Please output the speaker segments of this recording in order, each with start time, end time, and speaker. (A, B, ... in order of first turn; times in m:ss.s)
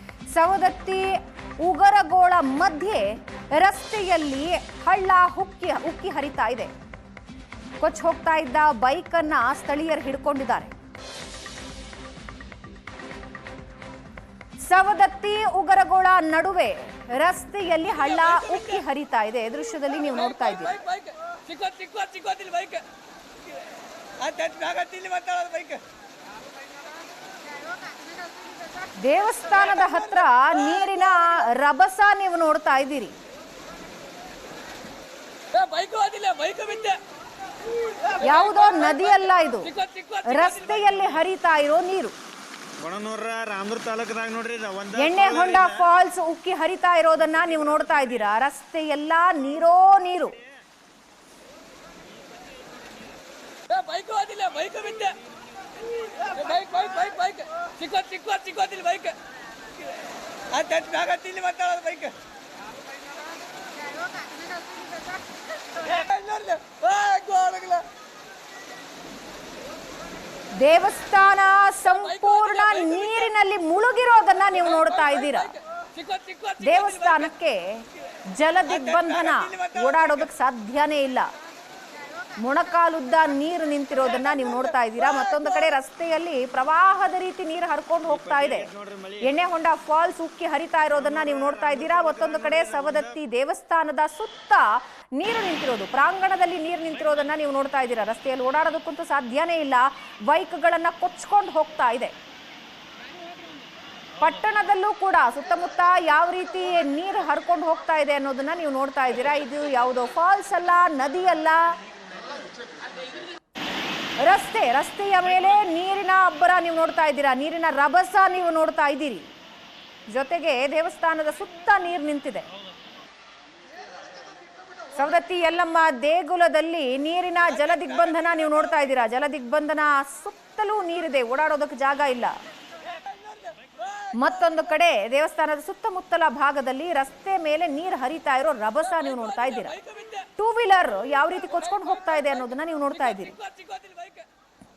0:00.3-0:06.7 A
0:07.8-0:10.7 A
0:14.7-0:20.8 A
0:20.7-0:22.8 B
0:24.2-0:25.8 B
0:29.0-0:33.2 A
0:35.5-0:37.0 B
0:38.2-0:42.1 A
0:39.7-0:40.6 B
0:42.8-0:45.9 C
0:45.0-0:50.4 A
0:53.7-0:55.2 B
0:56.2-0:59.2 B
1:00.5-1:02.1 B
1:05.9-1:07.8 B
1:10.6-1:15.6 A
1:15.9-1:16.9 B
1:16.6-1:21.3 A
1:22.4-1:42.1 A
1:28.1-1:29.3 C
1:31.0-1:33.2 C
1:44.2-1:51.7 A
1:54.2-1:59.3 A
2:00.1-2:02.5 A
2:05.0-2:12.4 A
2:13.4-2:14.1 B
2:14.1-2:19.8 A
2:19.7-2:20.2 B
2:20.4-2:23.4 A
2:23.4-2:24.2 B